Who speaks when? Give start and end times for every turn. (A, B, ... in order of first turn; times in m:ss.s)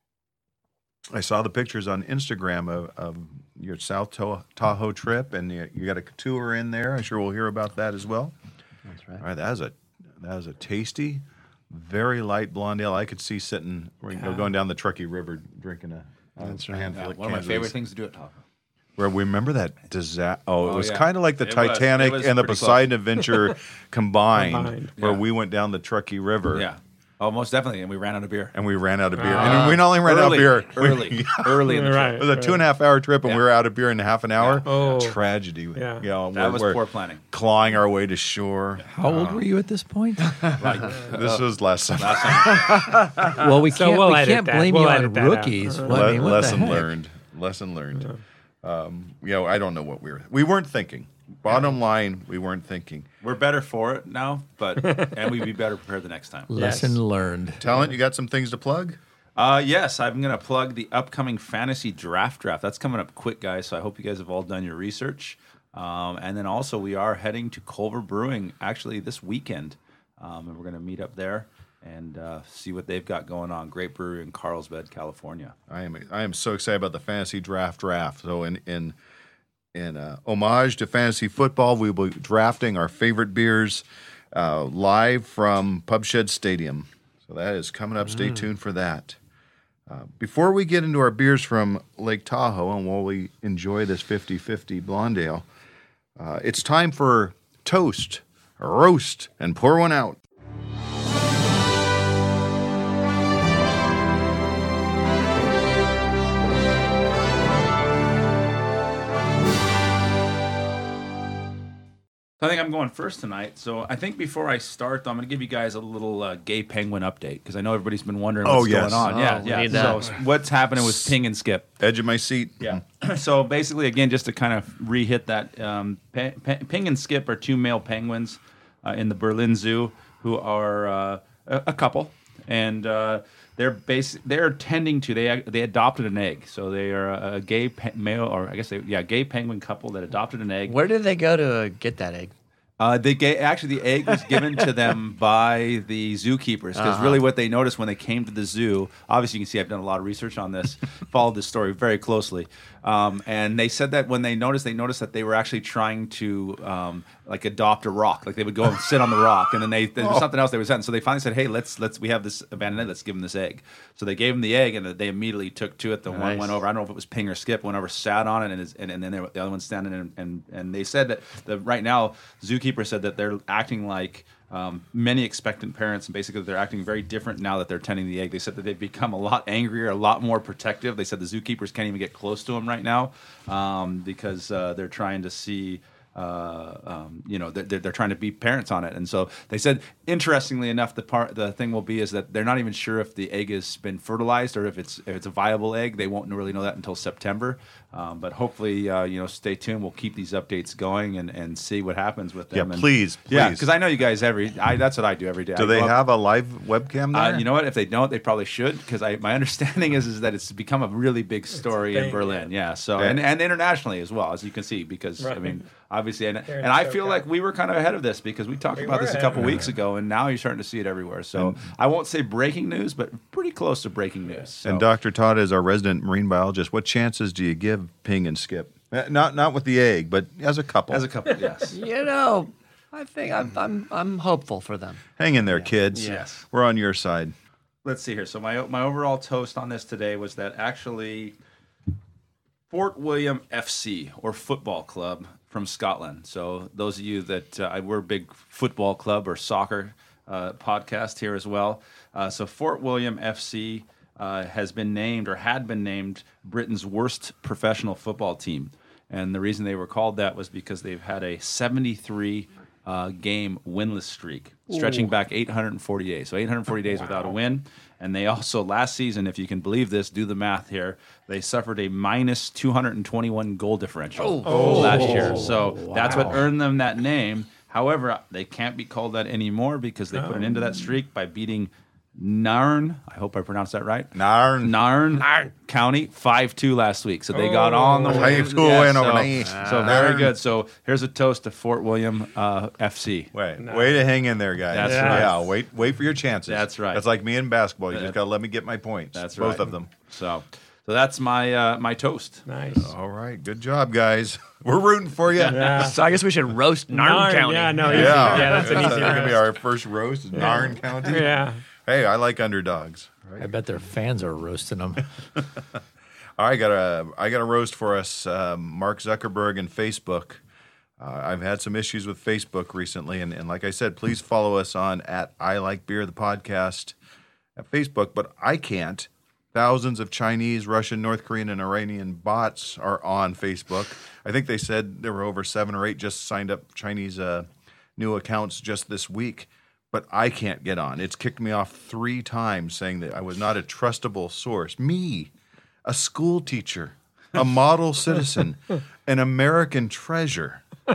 0:01.1-0:08.3 A
0:08.9-0:09.2 B
0:09.2-0:17.7 A
0:16.4-0:16.9 B
0:16.9-0:18.4 C
0:19.0-0:26.7 A
0:20.6-0:22.9 C
0:24.4-0:24.9 D
0:25.0-0:25.2 C
0:26.5-0:28.6 C
0:28.5-0:39.5 A
0:29.2-0:29.8 D
0:29.2-0:32.2 C
0:31.6-0:32.6 D
0:34.4-0:34.9 C
0:34.6-0:35.2 D
0:35.8-0:36.0 D
0:36.3-0:37.2 C
0:38.9-0:40.4 E
0:40.6-0:41.4 C
0:40.9-0:42.9 A
0:42.0-0:43.1 C
0:43.2-0:46.9 E
0:43.7-0:46.2 D
0:45.9-0:53.1 A
0:53.2-0:56.5 C
0:56.5-0:57.6 E
0:57.6-0:59.0 A
0:59.4-1:15.6 C
1:15.7-1:19.0 A
1:19.7-1:29.2 A
1:28.0-1:28.5 B
1:29.9-1:35.5 A
1:36.2-1:40.2 A
1:52.4-2:01.7 C
1:58.4-1:59.9 A
1:59.1-2:00.0 B
2:00.8-2:01.1 A
2:01.8-2:02.8 A
2:02.6-2:20.8 C
2:20.7-2:22.3 B
2:22.8-3:26.0 C
2:26.8-2:27.2 B
2:40.0-2:40.2 A
2:46.1-2:46.6 E
3:22.5-3:23.7 A
3:25.6-3:27.5 A
3:27.1-3:44.8 C
3:31.7-3:32.5 D
3:33.0-3:33.2 A
3:35.2-3:35.6 D
3:36.5-3:37.2 D
3:38.8-3:39.5 D
3:44.6-3:51.1 A
3:50.9-3:51.8 C
3:51.7-3:56.3 B
3:55.2-3:57.3 A
3:56.0-3:56.4 C
3:57.8-4:01.4 C
4:02.7-4:53.3 C
4:34.2-4:34.7 B
4:34.4-4:35.2 D
4:34.5-4:36.4 E
4:40.2-4:40.5 D
4:44.1-4:44.9 A
4:47.3-4:48.5 D
4:48.0-4:50.4 A
4:49.4-4:50.0 B
4:53.3-4:59.9 A
4:53.6-4:53.9 D
4:54.7-4:55.5 C
4:54.8-4:55.3 D
4:56.5-4:57.0 C
4:59.1-5:02.4 C
5:02.5-5:02.9 D
5:02.8-5:05.8 A
5:05.5-5:06.0 D
5:05.7-5:09.3 B
5:06.9-5:09.4 D
5:07.8-5:13.5 A
5:10.3-5:11.6 D
5:13.4-5:15.1 E
5:16.4-5:20.4 A
5:21.0-5:27.0 A
5:27.6-5:45.3 A
5:45.8-5:50.6 A